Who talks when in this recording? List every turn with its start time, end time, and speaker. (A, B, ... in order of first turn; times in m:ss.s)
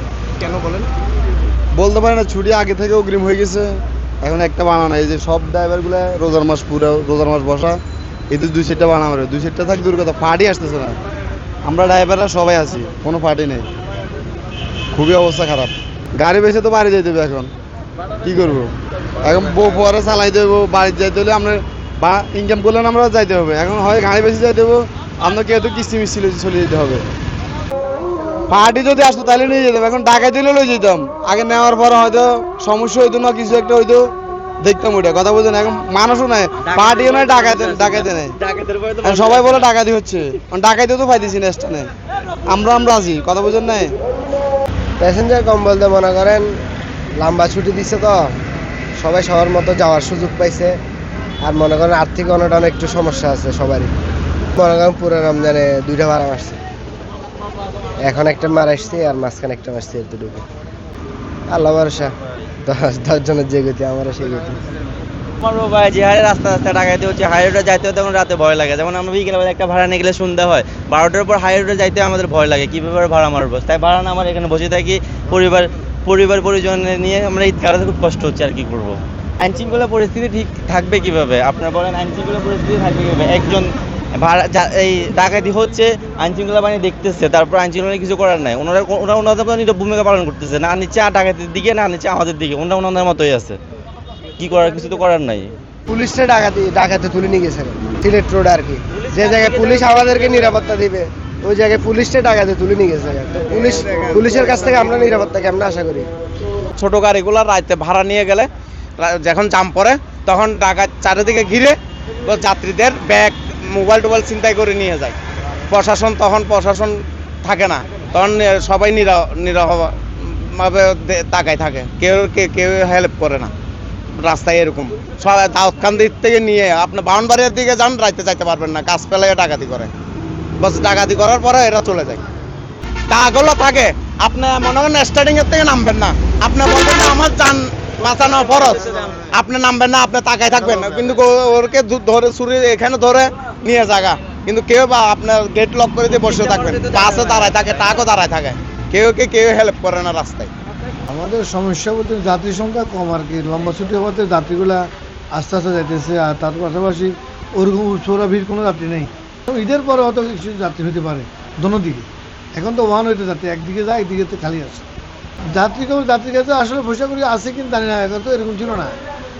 0:00.4-0:00.8 A
0:01.7-0:03.7 B
0:04.2-0:07.8 B
0:08.3-0:11.0 B
0:11.6-0:13.7 B
0:14.9-0:17.5 B
0:18.2-0:27.0 B
0:28.5-0:34.1 B
0:34.6-0:38.3 B
0:36.6-0:39.7 C
0:39.0-0:41.9 B
0:42.5-0:43.9 B
0:45.0-0:46.5 D
0:47.2-0:48.2 D
0:49.0-0:50.7 D
0:51.4-0:53.9 D
0:54.5-0:56.6 D
0:58.0-1:00.4 D
1:01.5-1:02.1 D
1:02.6-1:04.6 D
1:05.4-1:33.6 C
1:34.4-1:35.5 C
1:35.9-1:46.1 D
1:43.7-1:44.2 A
1:46.7-1:55.2 A
1:55.7-2:03.5 A
2:04.2-2:09.9 A
2:10.6-2:12.2 A
2:13.1-2:30.5 A
2:31.1-2:44.8 E
2:45.5-2:49.0 E